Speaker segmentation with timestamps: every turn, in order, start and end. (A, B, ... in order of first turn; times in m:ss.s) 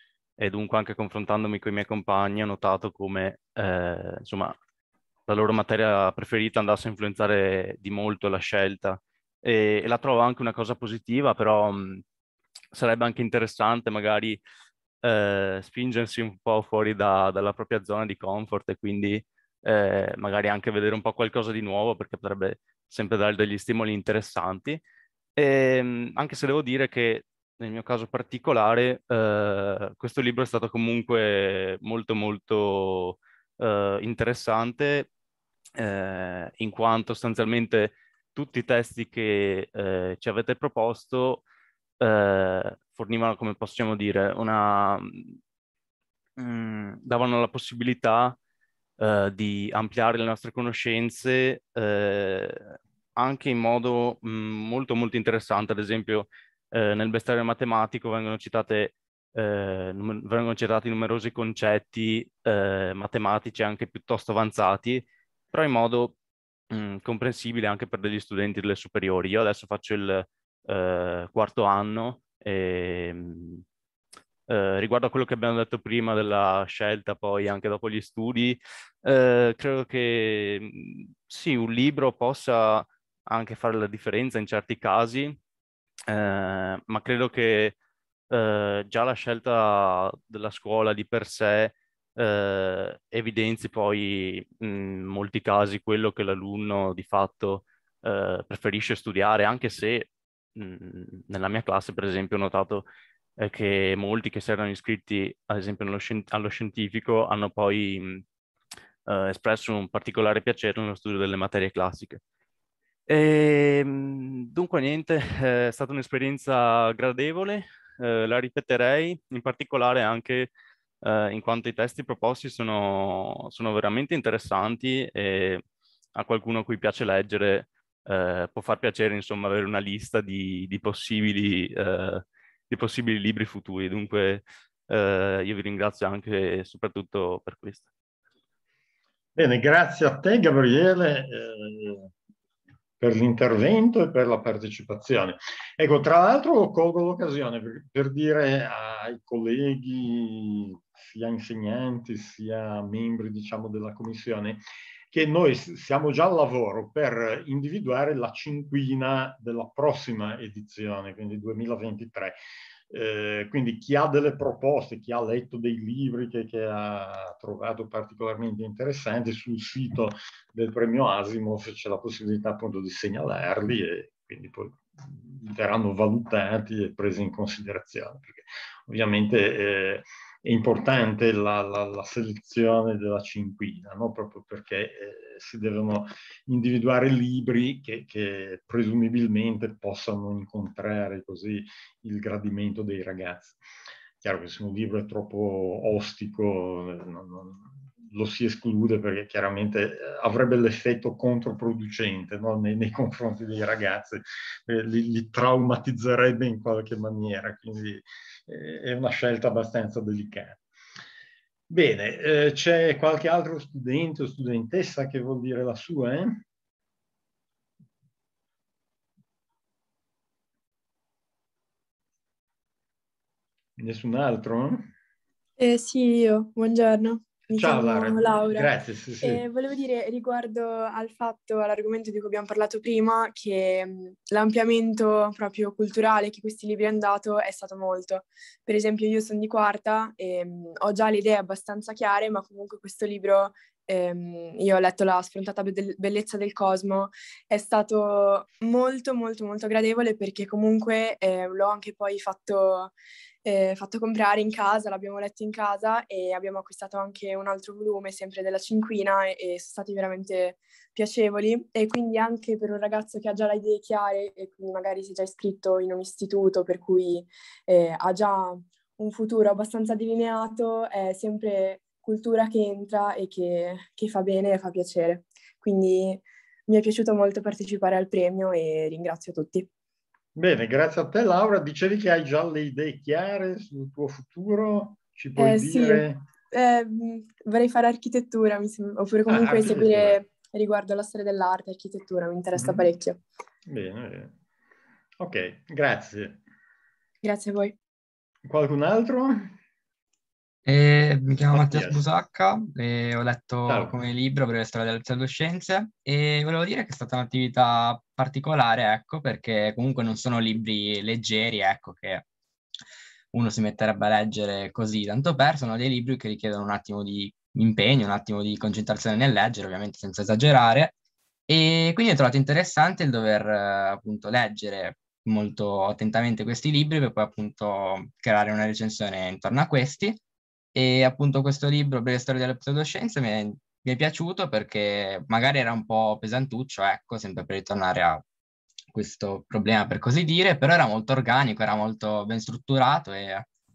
0:00.4-0:04.6 A
0:05.3-0:12.0 A
0:12.7-0:14.4 A
0:15.0-0:24.8 A
0:25.4-0:35.1 A
0:35.8-0:41.4 A
0:42.0-0:45.4 A
0:46.4-0:48.4 A
0:49.0-1:06.2 A
1:06.7-1:13.6 A
1:14.5-1:25.4 A
1:26.1-1:27.8 A
1:28.3-1:42.9 A
1:43.4-1:48.2 A
1:49.1-1:52.2 A
1:53.1-2:00.5 A
2:01.0-2:05.6 A
2:06.2-2:17.9 A
2:19.4-2:22.1 B
2:23.0-2:42.4 B
2:42.9-3:13.6 B
3:14.2-3:30.6 B
3:31.7-3:36.4 B
3:43.8-3:44.9 B
3:45.6-3:48.7 C
3:47.6-3:49.4 B
3:49.2-4:12.9 C
4:13.4-4:39.7 C
4:40.4-4:46.2 B
4:45.4-4:53.2 C
4:49.3-4:50.2 B
4:52.6-4:52.9 B
4:53.7-4:54.3 B
4:55.2-4:56.4 B
4:57.2-4:57.7 C
4:58.4-4:59.6 B
5:00.7-5:12.2 D
5:01.5-5:02.0 B
5:03.6-5:04.0 B
5:13.3-5:20.9 D
5:21.5-5:30.2 D
5:30.8-5:38.2 D
5:38.9-5:43.5 D